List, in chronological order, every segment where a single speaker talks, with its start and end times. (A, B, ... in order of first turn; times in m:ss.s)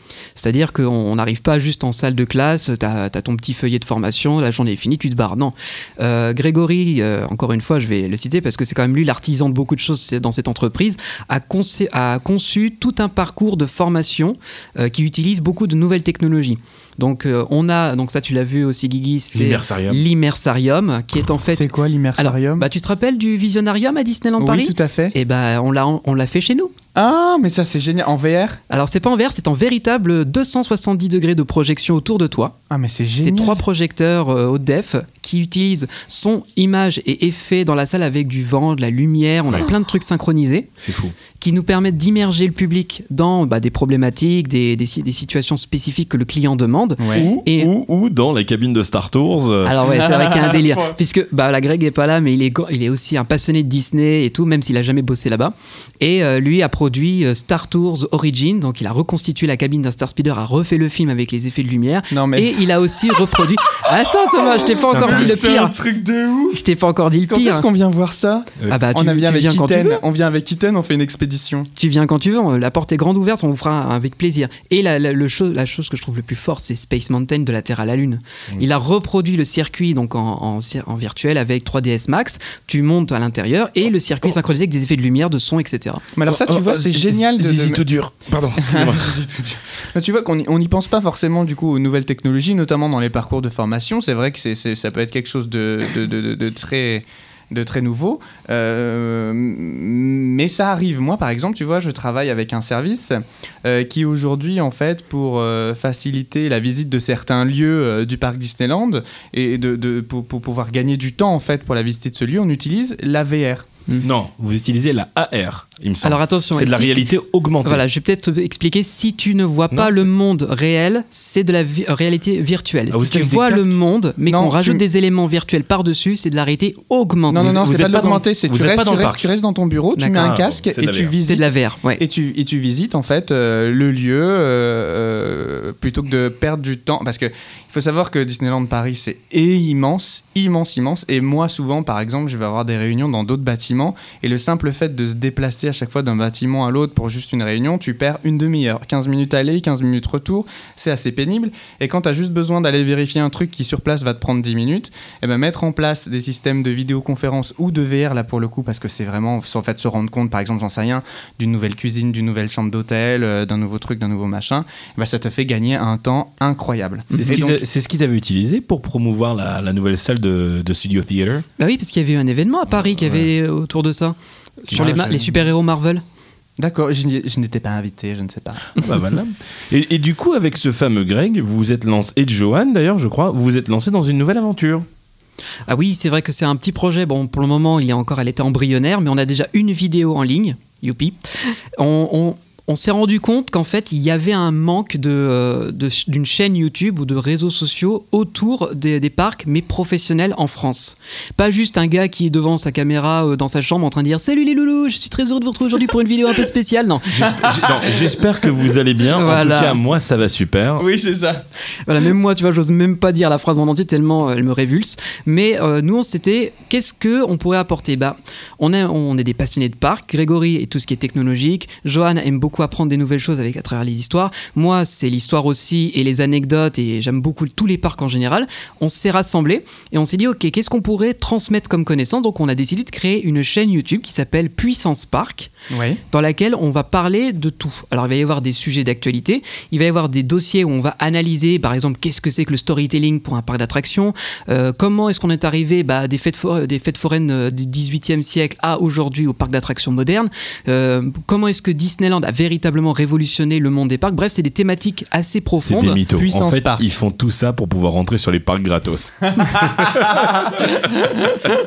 0:00.4-0:26.7 A
0:19.3-0:20.0 B
0:21.5-0:22.6 C
0:24.4-0:25.1 C
0:26.9-0:28.6 C
0:28.7-0:32.5 A
0:32.7-0:33.6 C
0:33.2-0:40.7 A
0:40.8-0:41.2 B
0:41.4-0:47.7 A
0:47.0-0:47.3 C
0:47.1-0:49.8 B
0:49.6-1:05.7 A
0:49.8-0:51.0 C
1:02.1-1:02.6 C
1:04.4-1:06.6 C
1:04.9-1:05.6 B
1:06.5-1:07.6 A
1:07.3-1:11.7 C
1:08.7-1:10.0 A
1:11.8-1:26.0 A
1:26.1-1:27.8 C
1:26.3-1:29.2 B
1:28.5-1:53.7 C
1:54.0-1:57.8 B
1:56.0-1:57.1 A
1:57.6-2:07.6 A
1:59.7-2:00.1 B
2:02.9-2:03.8 B
2:04.3-2:04.8 C
2:07.3-2:47.6 C
2:07.4-2:09.3 B
2:10.0-2:10.3 A
2:10.2-2:11.1 B
2:11.2-2:12.0 A
2:47.1-2:47.4 A
2:47.2-2:51.4 B
2:51.6-2:56.0 A
2:52.7-2:53.3 B
2:54.7-2:55.4 C
2:56.6-2:58.8 C
2:58.8-3:04.8 B
3:05.7-3:11.2 A
3:11.8-3:27.2 A
3:27.1-3:30.8 B
3:27.2-3:28.4 C
3:29.2-3:29.8 A
3:30.8-3:31.4 C
3:31.9-3:55.5 A
3:55.7-3:56.0 C
3:56.1-4:16.0 A
4:15.6-4:20.6 B
4:16.2-4:16.8 C
4:19.4-4:21.4 C